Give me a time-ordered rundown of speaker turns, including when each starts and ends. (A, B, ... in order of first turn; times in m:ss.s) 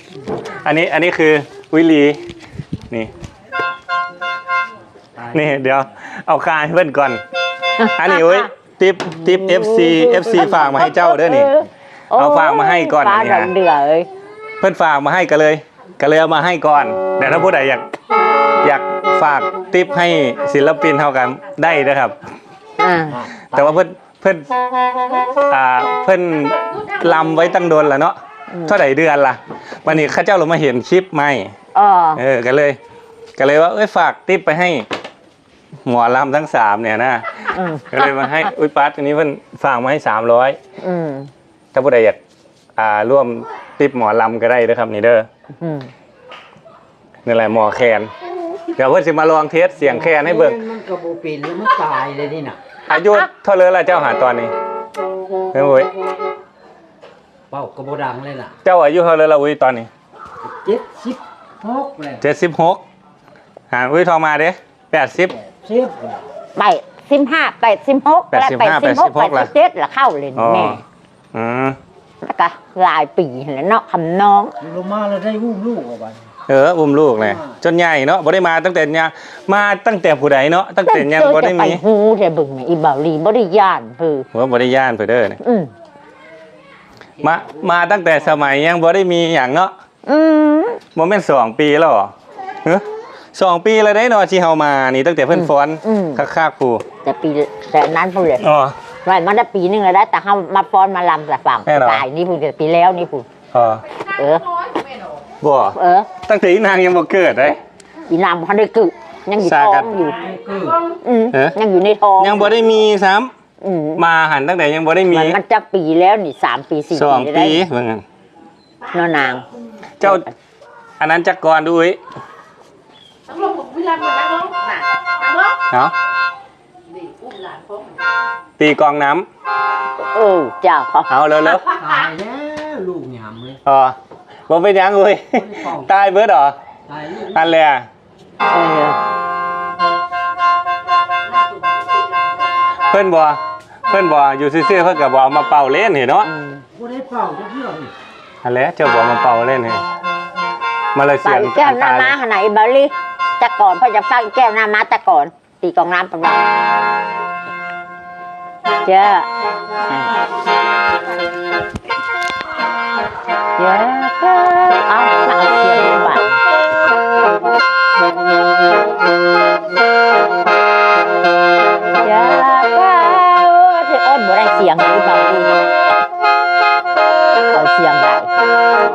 0:00.5-0:02.2 A
0:05.2-0:05.6 B
0:05.3-0:07.2 A
0:07.8-0:08.5 C
0:07.8-0:11.5 A
0:09.6-0:10.0 B
0:10.0-0:14.1 C
0:12.1-0:13.5 A
0:14.6-0:17.8 A
0:18.6-0:22.2 A
0:22.8-0:23.2 C
0:23.1-0:23.8 B
0:23.5-0:24.5 A
0:25.5-0:31.5 A
0:31.7-0:32.2 C
0:32.2-0:32.8 A
0:33.4-0:34.9 A
0:35.8-0:40.6 A
0:37.5-0:38.5 C
0:40.8-0:41.3 C
0:41.7-0:42.2 A
0:42.8-0:45.3 A
0:45.6-0:45.9 C
0:47.2-0:48.1 A
0:48.7-0:50.6 A
0:49.8-0:52.6 B
0:52.9-0:53.2 C
0:52.9-0:54.5 A
0:55.5-0:55.9 A
0:57.5-0:58.5 B
0:58.6-0:59.9 A
1:00.4-1:02.2 B
1:02.2-1:02.8 A
1:03.7-1:05.4 A
1:05.4-1:06.2 B
1:06.6-1:10.8 C
1:08.3-1:09.5 A
1:10.4-1:10.8 A
1:11.3-1:11.8 A
1:12.2-1:14.5 C
1:14.6-1:16.3 B
1:16.5-1:21.8 A
1:17.2-1:17.5 B
1:20.8-1:24.3 C
1:24.3-1:25.4 A
1:25.4-1:25.7 C
1:27.2-1:29.7 A
1:30.0-1:30.8 C
1:30.9-1:32.1 A
1:32.6-1:36.8 A
1:35.3-1:36.2 C
1:37.0-1:38.4 C
1:38.4-1:38.8 A
1:39.0-1:43.3 C
1:41.7-1:42.0 A
1:43.5-1:43.8 A
1:44.1-1:44.5 C
1:45.4-1:47.6 A
1:45.7-1:46.1 C
1:48.1-1:50.2 C
1:49.4-1:50.0 A
1:50.2-1:50.8 B
1:51.0-1:52.6 C
1:52.2-1:53.3 A
1:53.6-1:54.0 C
1:54.0-1:55.4 A
1:55.1-1:57.6 C
1:56.9-1:58.0 A
1:58.9-1:59.4 C
2:00.0-2:00.2 A
2:00.0-2:00.3 C
2:01.0-2:02.0 A
2:03.3-2:05.6 D
2:06.9-2:07.9 D
2:08.6-2:09.2 A
2:10.1-2:11.1 C
2:11.1-2:11.7 A
2:11.7-2:13.6 B
2:13.6-2:14.0 A
2:14.5-2:16.6 A
2:15.3-2:15.9 B
2:16.9-2:17.5 B
2:17.3-2:17.9 A
2:18.5-2:19.0 C
2:22.9-2:26.3 A
2:26.3-2:26.6 C
2:26.7-2:27.9 B
2:28.4-2:29.8 A
2:30.9-2:32.2 A
2:31.2-2:36.4 C
2:38.8-2:39.3 C
2:39.8-2:40.2 C
2:43.6-2:46.4 C
2:52.0-2:55.5 C
2:57.5-2:58.3 C